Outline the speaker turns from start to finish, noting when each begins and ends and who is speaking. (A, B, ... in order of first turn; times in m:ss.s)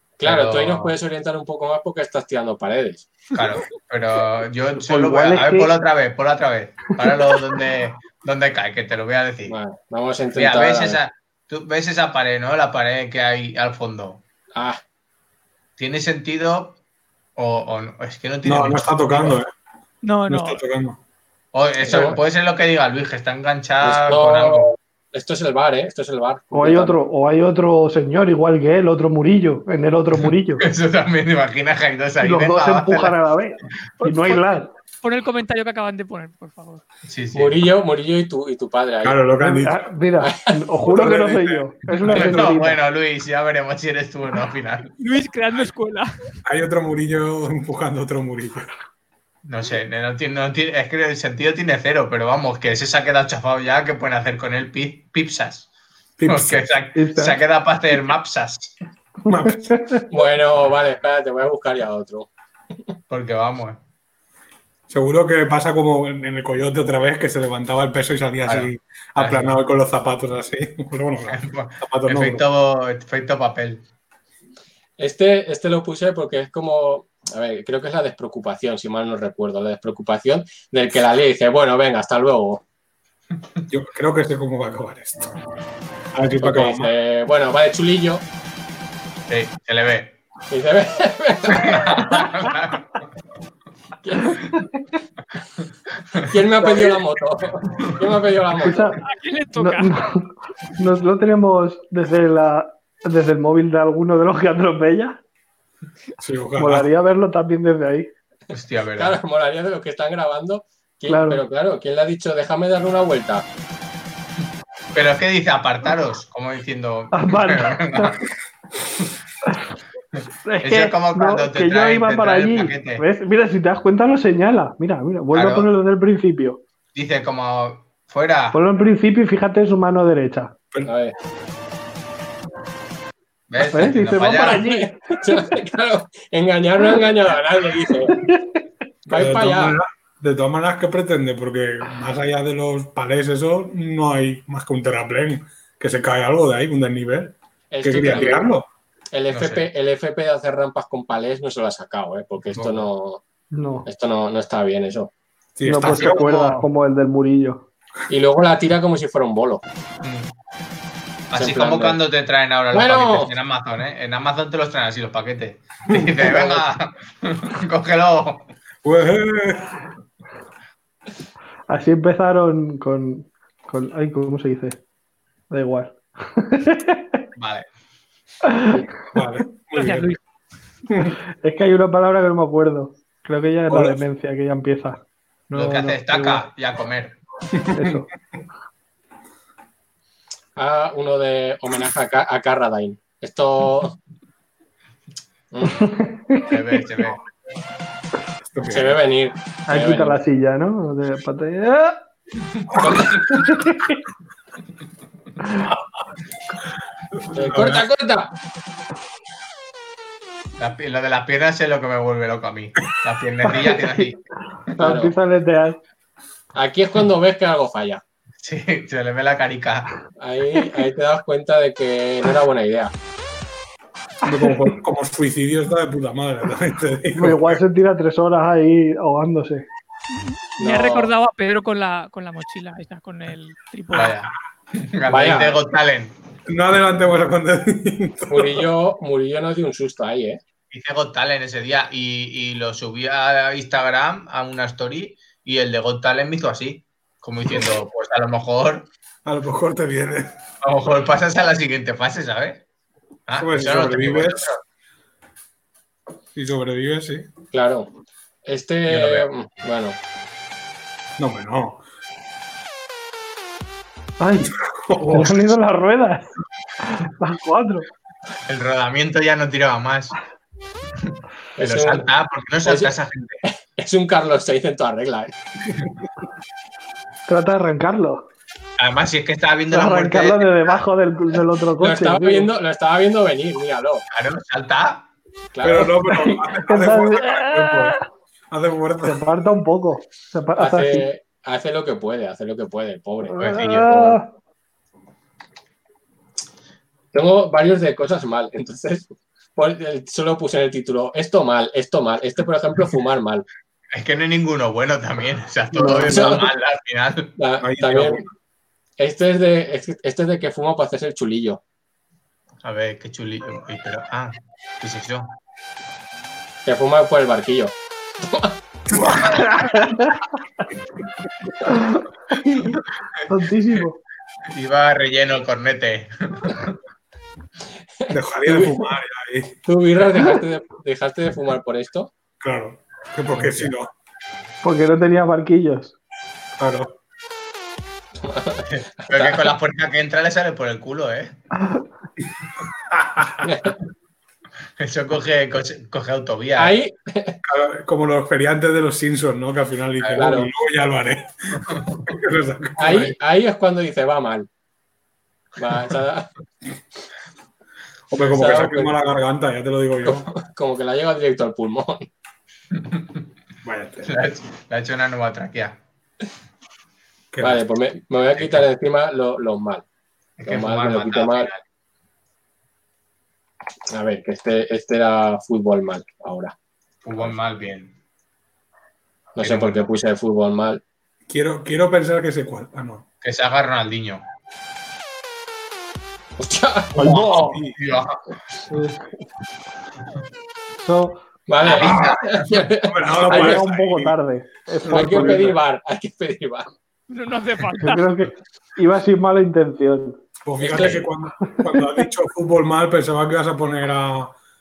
0:00.2-0:03.1 A
0:00.2-0:00.9 B
0:03.3-0:09.6 B
0:04.8-0:05.7 C
0:09.5-0:11.0 A
0:10.3-0:14.2 B
0:14.5-0:14.8 A
0:15.8-0:16.8 B
0:17.4-0:19.4 B
0:18.4-0:19.5 D
0:20.0-0:20.6 E
0:20.3-0:21.0 D
0:21.5-0:24.7 B
0:21.8-0:22.2 A
0:23.8-0:26.9 A
0:26.5-0:30.6 C
0:30.6-0:33.2 B
0:32.2-0:34.7 C
0:34.0-0:36.8 E
0:37.0-0:37.6 B
0:37.3-0:39.2 A
0:39.0-0:39.9 D
0:39.4-0:42.8 C
0:40.8-0:42.5 D
0:42.0-0:44.9 B
0:45.0-0:46.1 E
0:46.4-0:48.7 D
0:49.4-0:55.7 B
0:56.2-0:56.6 D
0:56.3-0:58.7 B
0:56.9-0:57.4 C
0:59.2-0:59.8 D
0:59.4-1:00.1 C
1:00.1-1:02.3 A
1:03.1-1:03.8 B
1:04.9-1:12.4 D
1:08.5-1:09.6 B
1:11.3-1:13.8 B
1:15.0-1:22.6 A
1:23.7-1:25.3 D
1:26.1-1:26.9 D
1:26.4-1:28.2 A
1:29.3-1:30.2 B
1:30.5-1:32.2 A
1:31.5-1:33.0 B
1:34.0-1:34.4 A
1:36.3-1:39.0 A
1:36.6-1:37.0 D
1:38.6-1:39.0 C
1:39.0-1:39.9 E
1:39.6-1:45.2 C
1:46.2-1:46.9 D
1:46.6-1:48.1 C
1:48.5-1:49.2 B
1:49.0-1:53.4 A
1:51.1-1:51.4 C
1:54.9-1:58.2 B
1:57.1-1:58.2 C
2:00.1-2:03.0 B
2:00.4-2:06.6 C
2:05.3-2:05.7 B
2:06.9-2:08.6 B
2:08.5-2:10.5 C
2:10.8-2:11.1 A
2:13.5-2:14.6 B
2:13.7-2:15.4 C
2:14.6-2:18.3 A
2:18.2-2:18.6 C
2:19.0-2:19.8 A
2:19.1-2:28.7 D
2:27.7-2:28.5 A
2:29.1-2:33.2 A
2:29.3-2:29.7 B
2:32.5-2:32.9 B
2:33.5-2:33.9 C
2:33.9-2:35.1 A
2:35.6-2:36.6 D
2:35.6-2:37.6 C
2:35.9-2:36.2 B
2:38.1-2:39.6 A
2:40.0-2:40.3 B
2:41.3-2:48.5 B
2:41.4-2:42.0 A
2:42.7-2:43.3 A
2:45.9-2:46.3 D
2:46.2-2:46.6 A
2:48.8-2:49.7 D
2:51.7-2:54.8 C
2:55.5-2:57.2 C
2:57.4-2:57.6 B
2:58.4-2:58.8 C
2:59.1-3:00.1 D
2:59.7-3:00.2 E
3:00.9-3:01.1 D
3:01.4-3:06.4 C
3:03.7-3:04.0 D
3:05.5-3:07.2 B
3:07.5-3:08.0 D
3:07.7-3:08.1 C
3:10.6-3:14.0 A
3:15.5-3:15.9 A
3:15.8-3:16.5 C
3:16.4-3:17.2 B
3:18.4-3:19.0 D
3:18.7-3:20.2 A
3:19.7-3:22.0 C
3:22.8-3:23.4 A
3:23.4-3:23.9 C
3:27.3-3:27.8 D
3:27.3-3:28.3 A
3:30.6-3:34.2 B
3:34.8-3:35.8 C
3:34.8-3:35.1 A
3:36.5-3:38.0 A
3:38.4-3:39.9 B
3:40.2-3:42.9 A
3:44.2-3:47.6 D
3:47.1-3:49.6 C
3:50.1-3:54.2 E
3:50.6-3:51.1 A
3:53.9-3:56.1 B
3:55.1-3:55.6 A
3:56.5-3:58.7 D
3:58.3-4:00.4 A
4:00.7-4:08.9 B
4:09.2-4:10.3 D
4:10.6-4:12.6 B
4:13.3-4:14.6 B
4:13.4-4:14.5 D
4:16.3-4:17.3 D
4:17.5-4:17.9 A
4:18.4-4:20.0 A
4:18.9-4:19.3 B
4:21.2-4:21.8 D
4:24.2-4:26.3 C
4:24.5-4:25.5 D
4:26.8-4:27.9 C
4:28.4-4:30.2 B
4:31.0-4:33.4 B
4:31.6-4:32.0 A
4:32.6-4:32.9 A
4:33.5-4:35.3 A
4:37.3-4:38.2 C
4:38.8-4:40.8 B
4:39.7-4:42.5 C
4:41.8-4:44.0 A
4:44.1-4:45.1 B
4:45.5-4:45.9 A
4:45.6-4:49.2 D
4:46.1-4:48.0 C
4:49.0-4:51.1 C
4:50.6-4:54.1 A
4:53.2-4:54.3 C
4:53.4-4:54.0 B
4:57.1-5:03.4 A
5:03.9-5:07.3 B
5:05.7-5:06.2 C
5:05.8-5:06.4 A
5:07.4-5:08.2 A
5:07.6-5:08.2 D
5:09.0-5:11.6 A
5:12.6-5:15.3 B
5:16.6-5:18.6 A
5:18.9-5:19.8 D
5:19.6-5:20.2 C
5:21.6-5:24.0 C
5:24.5-5:26.8 B
5:28.1-5:28.8 A
5:28.1-5:29.6 D
5:29.6-5:32.1 A
5:32.4-5:33.9 D
5:33.4-5:33.7 B
5:34.6-5:35.9 C
5:36.6-5:36.9 D
5:38.2-5:39.4 A
5:38.6-5:41.3 B
5:41.6-5:41.8 C
5:42.9-5:43.4 D
5:43.4-5:43.7 A
5:44.8-5:46.7 B
5:46.6-5:47.4 A
5:47.4-5:53.2 D
5:50.0-5:50.3 B
5:50.2-5:50.5 A
5:52.8-5:54.5 A
5:55.6-5:56.3 A
5:58.1-6:00.3 D
5:58.2-5:58.9 A
6:00.0-6:02.1 A
6:02.8-6:03.0 B
6:03.6-6:04.1 D
6:04.0-6:05.8 B
6:07.3-6:07.6 D
6:07.4-6:09.8 A
6:10.4-6:11.6 B
6:10.5-6:11.5 A
6:13.9-6:16.5 A
6:17.0-6:17.9 B
6:19.4-6:20.8 A
6:19.4-6:19.8 B
6:21.3-6:23.0 D
6:23.2-6:24.2 B
6:26.4-6:26.9 A
6:26.9-6:28.2 B
6:27.0-6:27.6 C
6:27.3-6:27.7 D
6:28.7-6:29.2 C
6:30.8-6:31.2 C
6:31.5-6:33.6 A
6:31.6-6:32.5 B
6:31.7-6:34.1 D
6:33.3-6:35.5 C
6:34.8-6:35.6 D
6:34.9-6:36.7 A
6:37.1-6:38.1 E
6:37.8-6:40.2 C
6:40.4-6:44.4 D
6:40.6-6:41.1 A
6:41.5-6:41.8 C